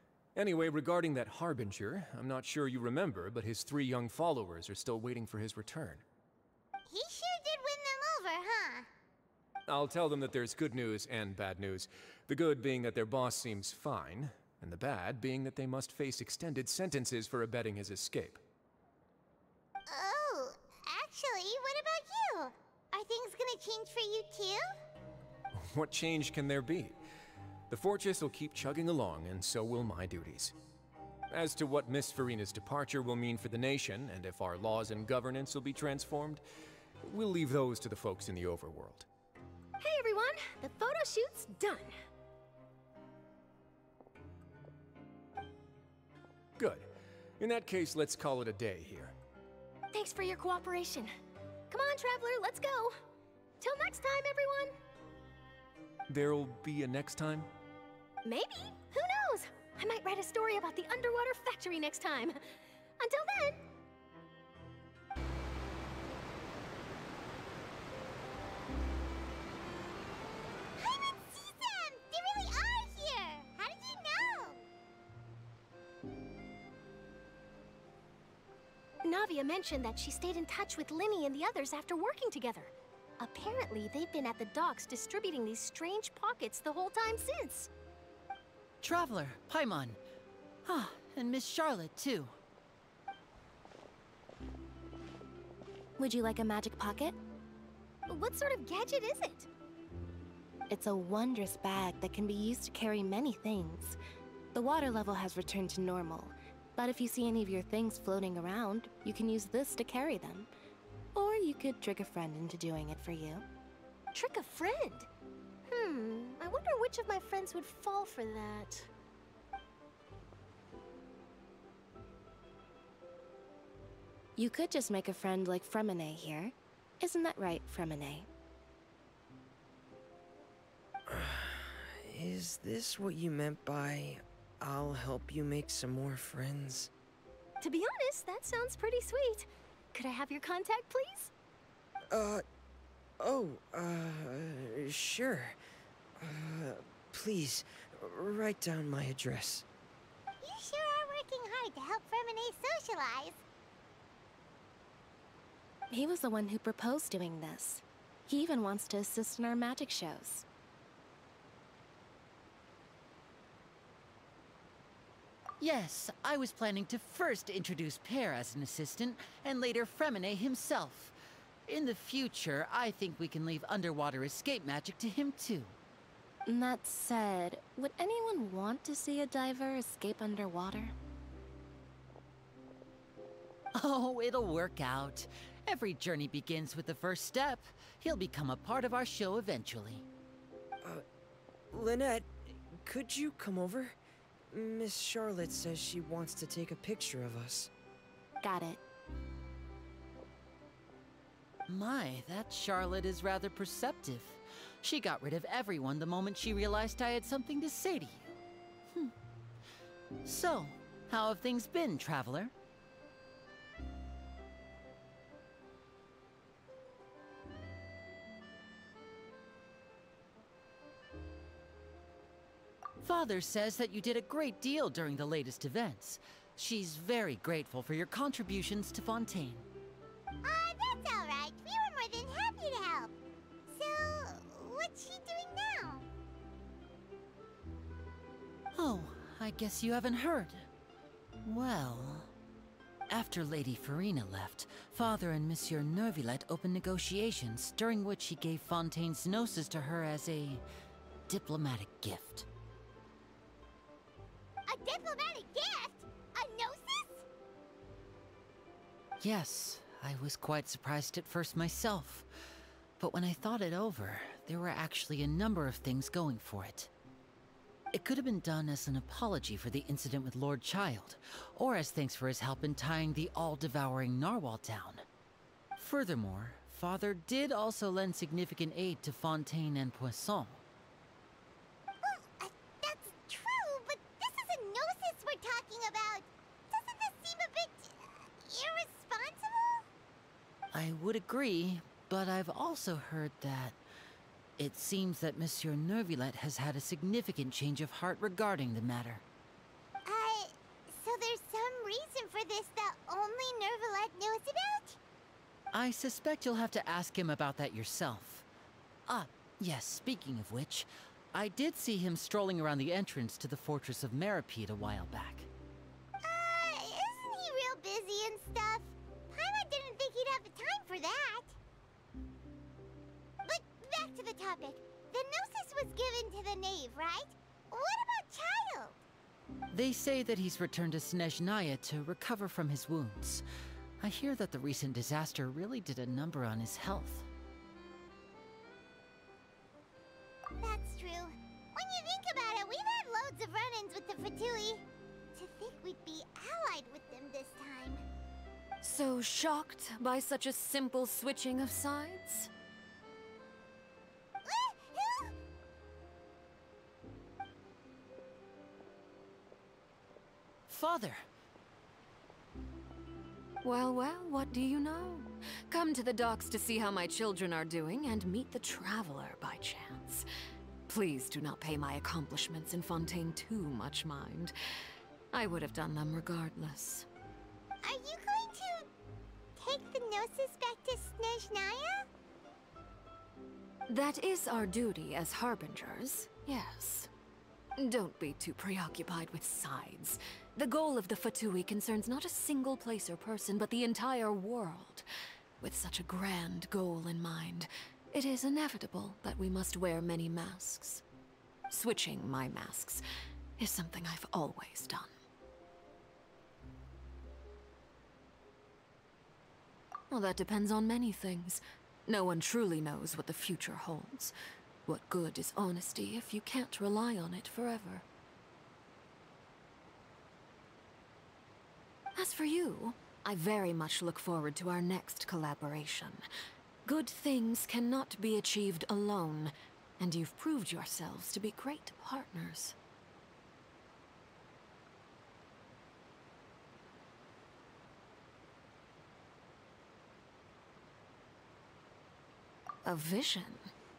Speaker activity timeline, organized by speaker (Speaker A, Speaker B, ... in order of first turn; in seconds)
Speaker A: 0.3-6.0, 9.7-18.4, 25.5-27.0, 27.7-30.6, 31.3-36.4, 37.0-39.1, 46.6-49.1, 56.1-57.5
Speaker B: 6.9-8.9, 19.9-24.7, 70.8-74.6, 150.4-153.4, 230.4-233.1, 233.7-236.1, 254.7-257.2, 282.0-289.9, 300.0-305.0, 316.2-321.6, 323.4-329.0, 340.6-344.8, 345.3-348.0, 354.4-355.3, 377.8-378.9, 379.6-382.1
Speaker C: 39.8-41.9, 49.9-51.1, 51.7-53.0, 53.6-54.8, 58.2-62.4, 63.0-63.6, 79.0-87.7, 98.1-99.5, 114.1-115.1, 115.7-118.9, 137.6-141.3
Speaker D: 88.8-90.0, 90.6-92.3, 165.6-171.2, 171.7-175.8, 183.8-190.1, 201.7-208.3, 210.2-212.5, 223.0-229.7, 238.7-240.7, 241.4-242.3, 243.1-250.6, 251.3-252.5, 259.2-262.3, 263.0-266.9, 267.9-275.0, 275.8-280.6, 290.7-293.8, 294.6-299.2, 305.7-308.4, 309.1-315.5, 329.7-333.4, 334.0-337.3, 360.7-361.2
Speaker E: 96.0-97.2, 100.7-104.0, 104.5-110.5, 111.1-113.4, 124.3-128.3, 155.9-160.4, 176.4-180.9, 198.4-198.8
Speaker F: 131.1-136.9, 142.1-142.4, 143.2-145.6, 146.2-149.7, 191.7-194.0, 194.5-197.7
Speaker G: 348.8-352.5, 363.6-370.2, 370.9-374.5, 375.3-377.1, 383.9-387.1, 387.8-395.1, 395.6-401.0, 401.7-403.0, 403.6-405.1, 410.1-414.3, 414.9-418.0, 422.1-426.2, 426.9-432.7, 442.8-443.7